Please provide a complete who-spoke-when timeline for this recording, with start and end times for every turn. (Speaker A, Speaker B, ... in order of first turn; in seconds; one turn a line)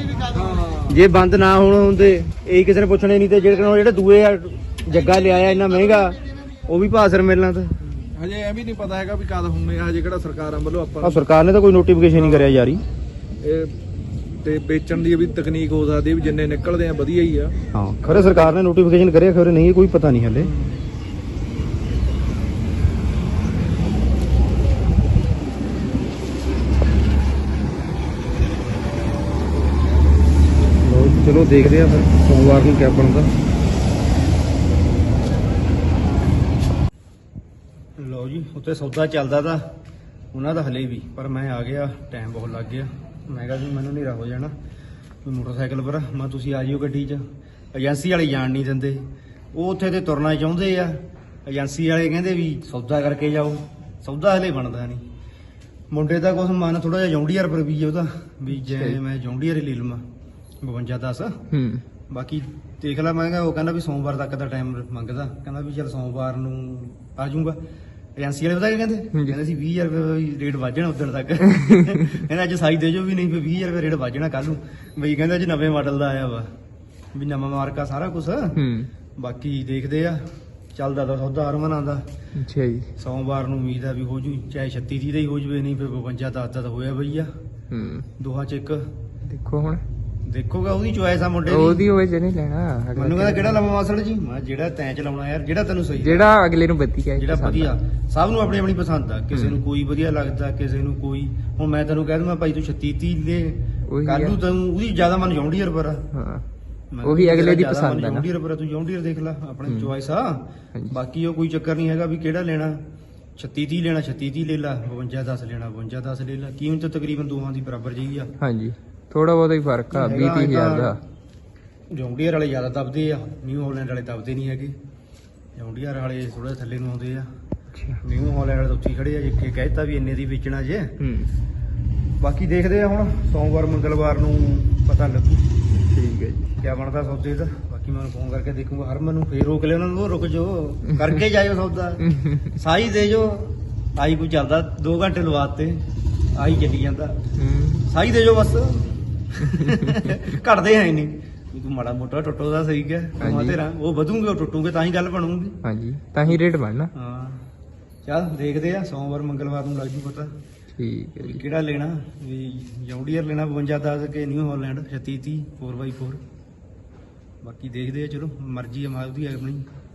Speaker A: 0.3-1.0
Speaker B: 0.9-7.8
Speaker A: 7.8-11.2
Speaker B: 11.0-12.8
Speaker A: 12.1-12.7
Speaker A: 13.4-13.7
Speaker A: 14.4-17.5
Speaker B: 17.7-20.5
Speaker A: 18.1-18.5
Speaker B: 30.8-33.3
Speaker B: 38.0-39.7
Speaker B: 40.3-44.5
Speaker B: 45.2-47.2
Speaker B: 47.7-51.0
Speaker B: 51.5-55.0
Speaker B: 55.9-60.0
Speaker C: 58.6-59.0
Speaker B: 60.6-61.4
Speaker C: 61.5-61.8
Speaker B: 62.1-67.6
Speaker B: 68.2-76.5
Speaker B: 77.1-78.6
Speaker C: 78.6-78.9
Speaker B: 79.2-80.2
Speaker B: 80.8-82.0
Speaker C: 82.4-82.9
Speaker B: 83.0-87.3
Speaker C: 87.7-88.1
Speaker B: 88.2-88.8
Speaker C: 89.3-89.8
Speaker B: 90.3-91.9
Speaker C: 91.5-93.5
Speaker B: 93.0-96.4
Speaker C: 96.0-97.7
Speaker B: 97.2-106.0
Speaker C: 103.9-104.4
Speaker C: 106.2-106.5
Speaker B: 106.9-112.8
Speaker C: 107.0-108.3
Speaker B: 113.4-118.3
Speaker C: 118.4-121.0
Speaker B: 119.9-121.0
Speaker B: 121.9-124.8
Speaker B: 125.6-127.3
Speaker B: 128.0-130.9
Speaker C: 131.0-131.3
Speaker B: 132.2-135.4
Speaker C: 135.9-136.6
Speaker B: 136.6-145.8
Speaker B: 146.4-147.1
Speaker C: 147.4-147.8
Speaker B: 147.9-155.6
Speaker C: 153.2-153.6
Speaker C: 155.6-156.9
Speaker B: 157.0-157.4
Speaker B: 158.1-160.3
Speaker C: 160.8-161.4
Speaker B: 161.2-166.2
Speaker B: 167.4-169.6